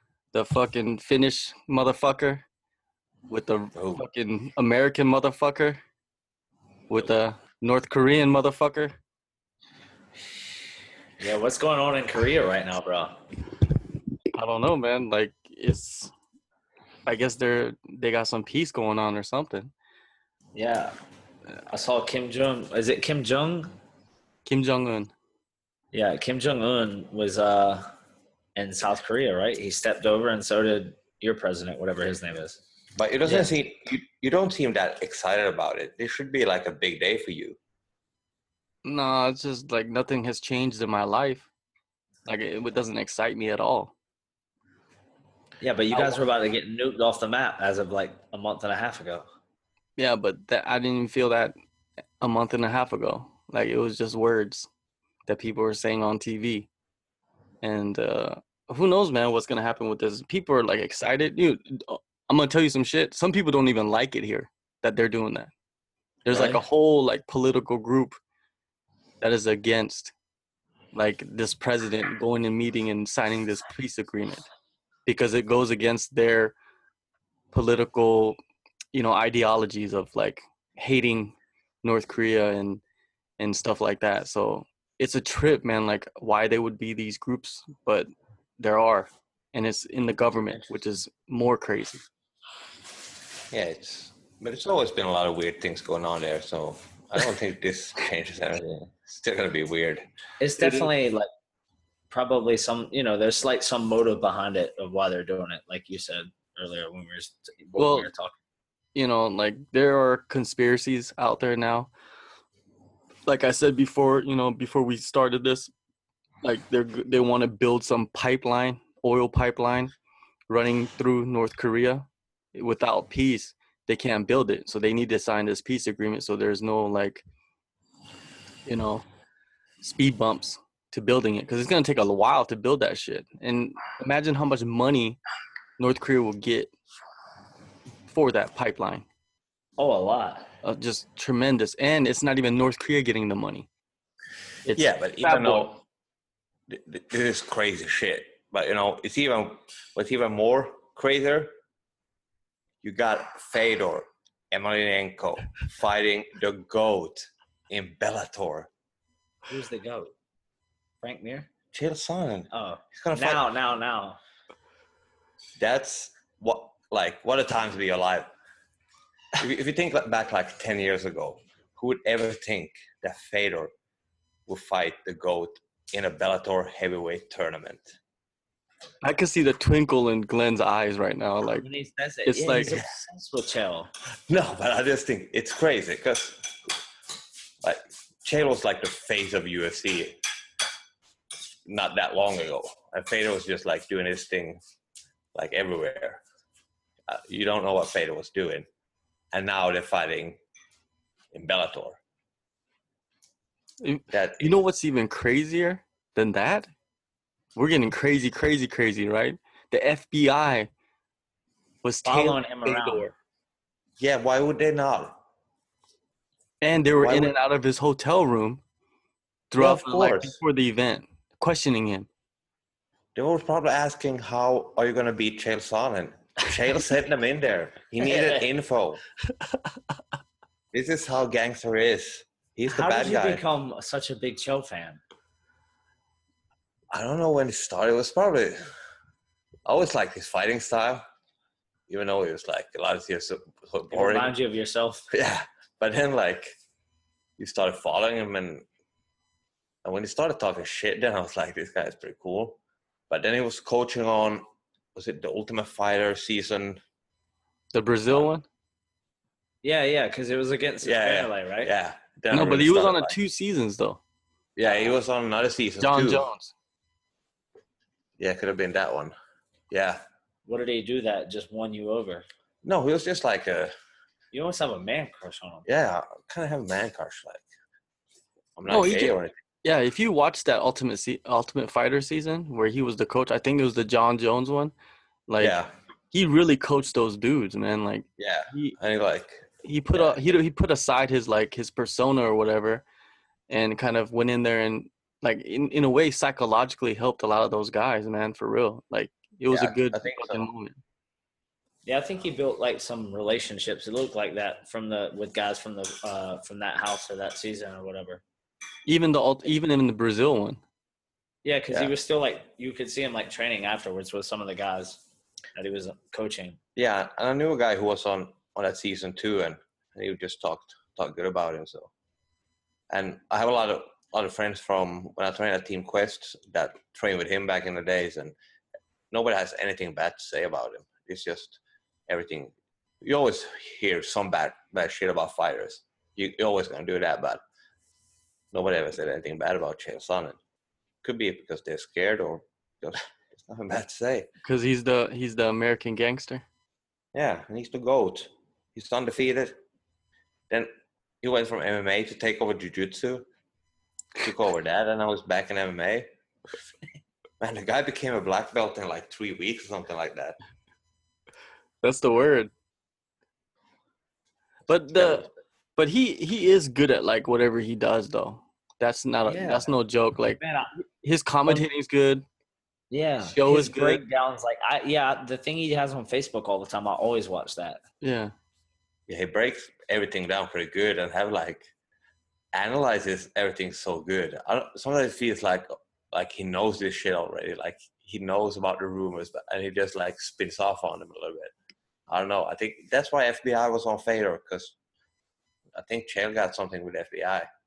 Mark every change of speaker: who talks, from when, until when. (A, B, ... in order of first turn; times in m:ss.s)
0:00.3-0:02.5 A
0:03.3-0:05.8 A
0:03.8-0:04.0 B
0:06.9-0:09.0 A
0:11.2-0:13.2 C
0:14.3-0:16.1 A
0:17.1-0:19.7 A
0:20.6-0:20.9 C
0:21.7-0:23.7 C
0:24.4-0:25.1 A
0:25.9-0:27.9 C
0:28.6-0:32.6 C
0:33.0-0:37.6 B
0:33.2-0:33.5 C
0:38.8-0:41.5 A
0:42.3-0:44.0 A
0:45.6-0:49.3 C
0:45.9-0:46.2 A
0:50.0-0:51.6 A
0:52.2-0:54.7 A
0:55.3-0:56.7 A
0:57.6-1:05.5 A
1:06.2-1:08.2 A
1:06.3-1:06.6 C
1:09.2-1:10.1 A
1:10.9-1:14.5 A
1:15.1-1:16.6 A
1:17.5-1:18.4 A
1:18.9-1:22.8 A
1:23.4-1:32.1 A
1:33.5-1:40.0 B
1:40.4-1:41.3 C
1:40.6-1:40.9 A
1:42.1-1:48.4 C
1:47.8-1:48.1 A
1:49.0-1:51.9 A
1:53.3-1:55.7 A
1:56.4-1:59.9 A
2:00.5-2:07.2 A
2:08.7-2:09.0 A
2:09.8-2:15.2 A
2:15.8-2:16.7 A
2:18.1-2:19.1 A
2:19.8-2:20.5 C
2:20.6-2:23.7 A
2:24.7-2:25.7 A
2:24.7-2:25.8 B
2:26.7-2:31.5 B
2:32.8-2:38.7 B
2:39.5-2:40.1 C
2:41.0-2:41.5 C
2:41.7-2:43.4 B
2:42.5-2:44.2 C
2:45.6-2:48.3 B
2:49.4-2:53.7 B
2:54.5-2:58.0 B
2:59.0-3:01.7 A
3:01.6-3:03.9 C
3:02.2-3:02.8 A
3:04.3-3:06.6 B
3:07.6-3:10.2 B
3:11.7-3:14.6 B
3:15.4-3:16.2 B
3:17.1-3:18.7 B
3:19.3-3:20.4 B
3:21.3-3:22.0 B
3:23.8-3:26.7 A
3:24.1-3:24.5 B
3:27.6-3:30.7 A
3:31.8-3:33.1 A
3:32.0-3:33.1 C
3:34.0-3:35.2 B
3:36.6-3:38.6 A
3:37.0-3:37.3 B
3:39.5-3:42.1 A
3:39.6-3:40.4 B
3:43.2-3:49.0 B
3:48.0-3:48.5 C
3:50.7-3:53.4 B
3:52.7-3:55.0 C
3:56.9-3:58.6 B
3:59.7-4:01.0 B
4:01.9-4:04.4 B
4:03.9-4:05.1 C
4:05.1-4:06.6 B
4:07.4-4:08.6 B
4:09.8-4:16.8 B
4:17.7-4:18.4 A
4:19.6-4:21.7 C
4:20.8-4:23.2 B
4:22.3-4:24.0 A
4:24.6-4:26.2 B
4:24.6-4:25.0 C
4:25.8-4:26.5 A
4:28.2-4:29.1 B
4:29.7-4:30.0 B
4:30.5-4:32.3 C
4:32.6-4:33.7 B
4:34.3-4:35.7 C
4:35.7-4:37.4 B
4:38.6-4:39.3 B
4:38.7-4:44.7 A
4:45.3-4:45.6 A
4:45.4-4:45.7 B
4:46.1-4:48.8 A
4:48.2-4:50.2 B
4:49.6-4:52.8 A
4:53.5-5:00.8 A
4:59.5-5:00.4 B
5:01.8-5:08.2 C
5:08.9-5:10.6 A
5:11.4-5:15.0 C
5:15.6-5:16.6 C
5:16.8-5:21.9 B
5:22.9-5:28.4 B
5:29.1-5:37.4 B
5:38.5-5:40.4 B
5:41.0-5:44.3 B
5:44.4-5:46.4 A
5:47.1-5:49.6 B
5:51.2-5:53.3 B
5:54.2-5:56.1 B
5:57.4-6:00.4 B
6:01.8-6:02.5 A
6:04.7-6:10.4 A
6:05.0-6:05.2 B
6:09.3-6:09.7 C
6:10.4-6:10.7 C
6:11.0-6:12.2 A
6:12.9-6:17.8 C
6:13.3-6:14.0 A
6:18.0-6:18.3 A
6:19.1-6:21.6 B
6:22.5-6:31.5 B
6:32.1-6:34.8 B
6:35.7-6:37.5 B